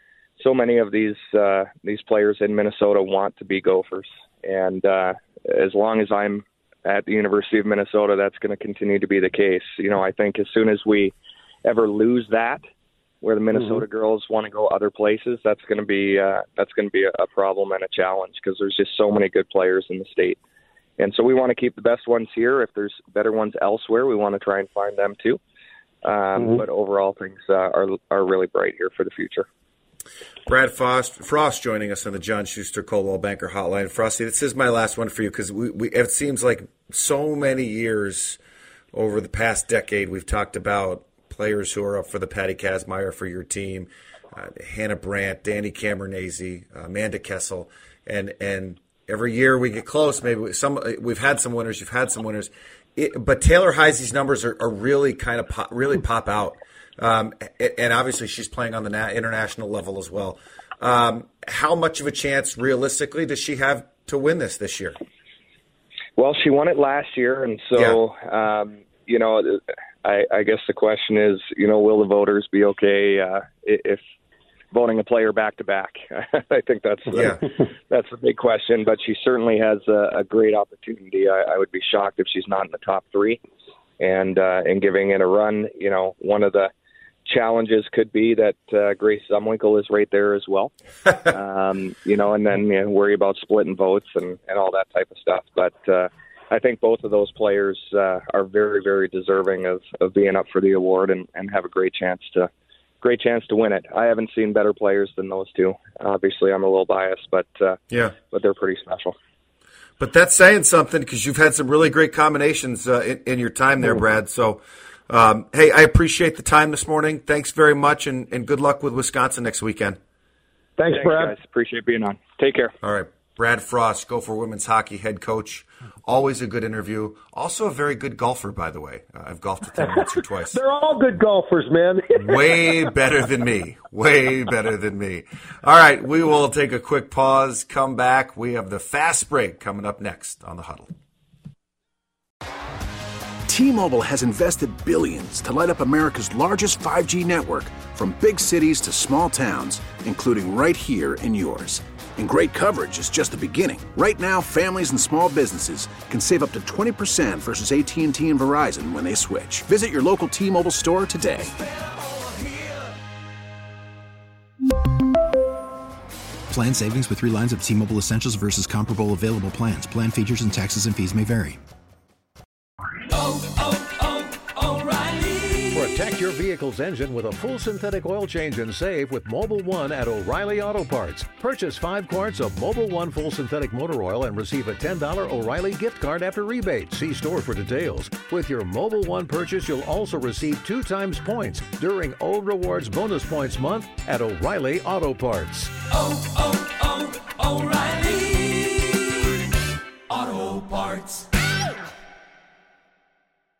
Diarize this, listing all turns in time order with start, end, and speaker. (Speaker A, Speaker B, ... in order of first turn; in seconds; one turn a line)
Speaker A: 0.4-12.6
Speaker A: 13.2-20.4
Speaker A: 21.0-25.4
Speaker A: 26.0-29.5
Speaker B: 30.5-38.4
Speaker B: 38.9-65.0
Speaker A: 66.2-74.0
Speaker A: 74.7-83.4
Speaker B: 77.1-77.4
Speaker A: 84.0-86.7
Speaker A: 87.2-102.5
Speaker A: 103.0-107.8
Speaker A: 108.3-109.2
Speaker B: 110.0-120.0
Speaker C: 120.8-121.3
Speaker A: 120.9-122.8
Speaker B: 122.8-130.6
Speaker C: 129.8-132.7
Speaker B: 132.2-140.9
Speaker D: 143.5-161.5
Speaker E: 166.5-171.6
Speaker F: 175.7-195.8
Speaker G: 195.8-198.8
Speaker G: 200.1-201.2